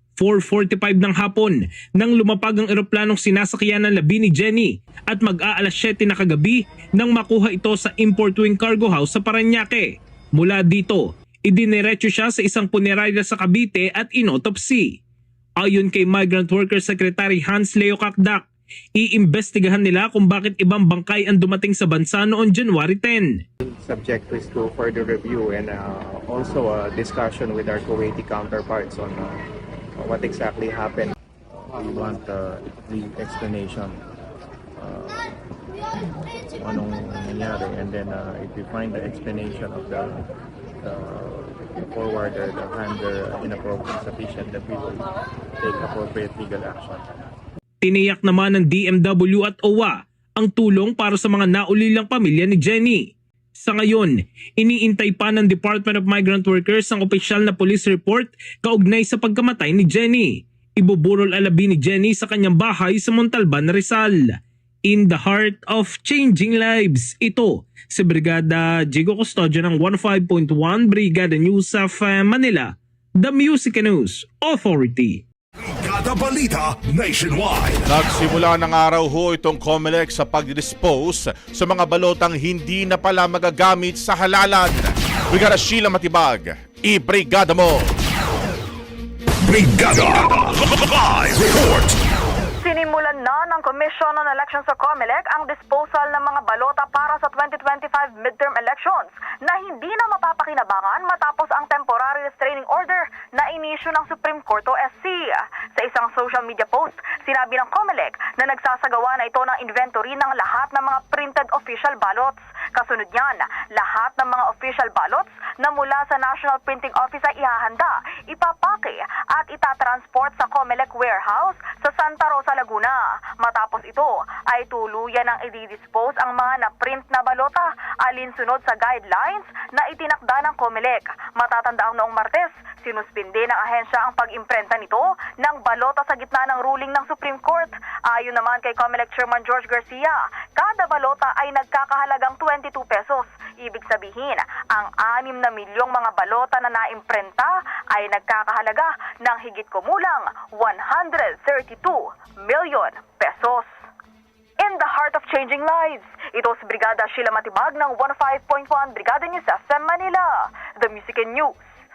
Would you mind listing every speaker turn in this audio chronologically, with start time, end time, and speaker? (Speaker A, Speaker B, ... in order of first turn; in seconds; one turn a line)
Speaker A: 0.2-15.0
Speaker A: 15.6-18.4
Speaker A: 18.9-23.4
Speaker B: 23.6-29.4
Speaker B: 30.0-31.1
Speaker B: 31.7-34.0
Speaker B: 34.8-35.2
Speaker B: 36.6-40.2
Speaker B: 40.8-45.1
Speaker B: 45.6-47.1
Speaker A: 47.8-53.0
Speaker A: 53.6-75.2
Speaker C: 75.6-77.9
Speaker D: 77.9-87.9
Speaker C: 89.4-92.0
Speaker E: 92.6-153.7
Speaker E: 154.6-161.5